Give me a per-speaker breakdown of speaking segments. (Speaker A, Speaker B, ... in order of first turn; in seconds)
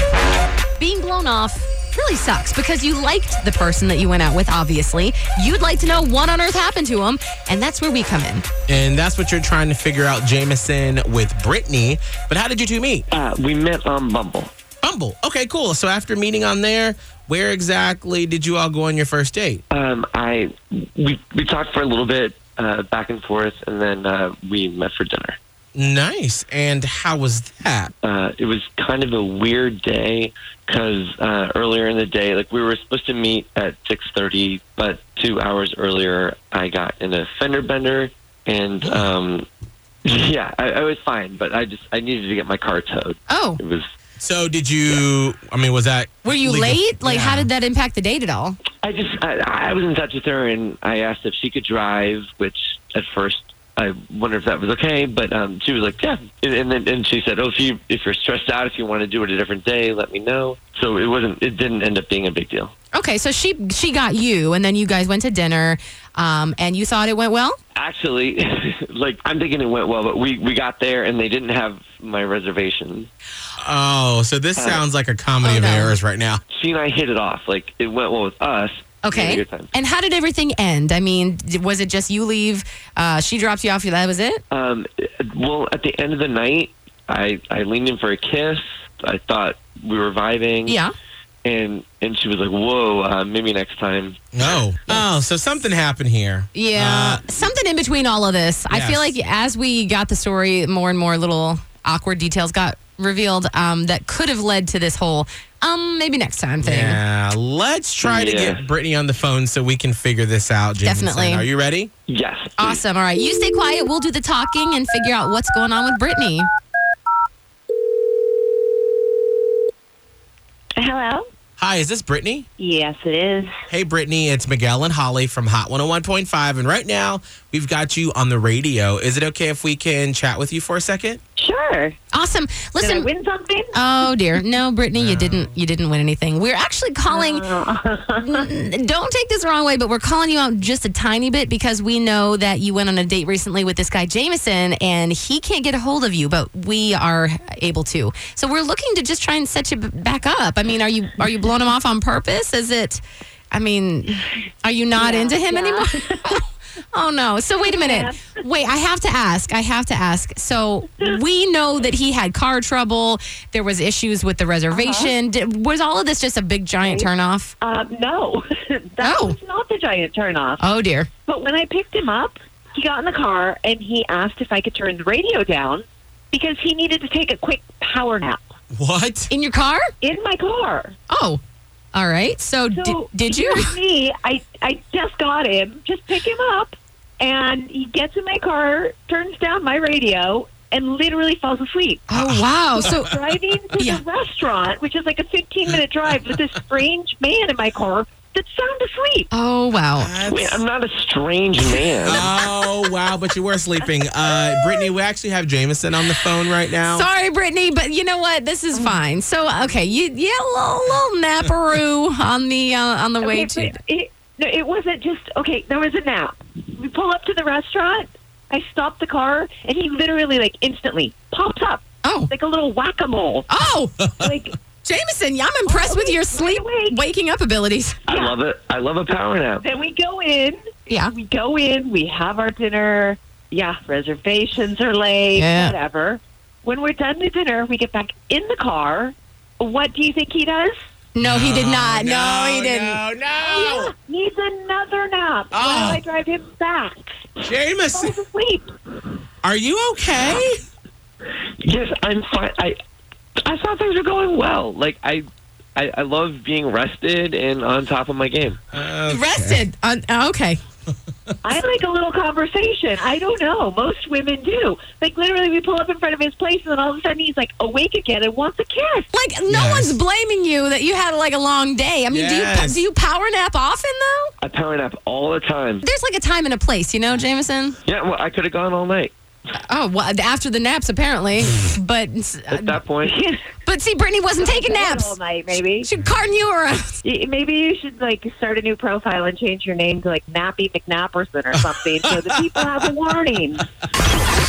Speaker A: 0.8-8.5, 43.3-43.6, 46.2-48.6, 63.0-67.6, 75.4-76.0, 79.0-84.4, 90.7-90.9, 96.5-107.0, 110.8-111.5, 112.6-116.5, 132.1-133.1, 133.7-137.5, 138.2-167.5, 169.0-169.3, 170.6-171.1, 179.3-179.9, 181.1-181.4, 181.9-183.7, 192.1-193.1, 199.3-200.1, 206.8-213.7, 222.0-222.3, 223.5-224.0, 224.8-228.0, 235.3-235.7, 241.1-243.0, 259.1-260.6, 269.1-274.3, 275.8-277.8, 279.7-282.8, 283.6-285.2, 285.8-287.0
Speaker B: 8.7-13.1, 14.8-19.6, 25.8-27.9, 44.2-47.5, 73.6-76.4, 94.3-97.5, 98.7-99.2, 106.6-111.9, 121.6-122.5, 123.7-131.2, 134.9-135.5, 178.7-179.3, 192.1-193.1, 200.0-200.6, 202.0-207.1, 241.2-243.9, 245.5-246.0, 247.4-248.2, 249.4-250.6, 258.7-259.6, 269.5-270.0, 272.1-272.8, 291.6-292.4
Speaker C: 13.1-14.5, 19.7-25.4, 28.0-39.5, 40.0-43.9, 48.8-62.7, 67.8-73.1, 74.6-74.8, 76.5-79.7, 84.5-90.8, 91.4-94.2, 108.0-108.6, 112.1-112.8, 200.2-202.3, 228.1-229.6, 251.6-252.8, 253.4-258.6, 274.4-275.8, 277.9-279.1, 282.5-283.2
Speaker D: 120.8-121.3, 122.6-123.5, 131.4-132.0, 132.8-133.8, 137.1-138.5, 155.0-156.2, 157.6-158.2, 164.7-165.1, 166.8-170.6, 171.2-178.5, 180.0-180.9, 182.7-192.1, 192.7-199.3, 208.7-209.0, 213.2-223.5, 224.2-224.5, 225.6-227.0, 228.1-228.4, 229.6-240.8, 243.4-247.2, 247.9-248.7, 261.4-269.1, 284.4-285.9, 287.0-293.7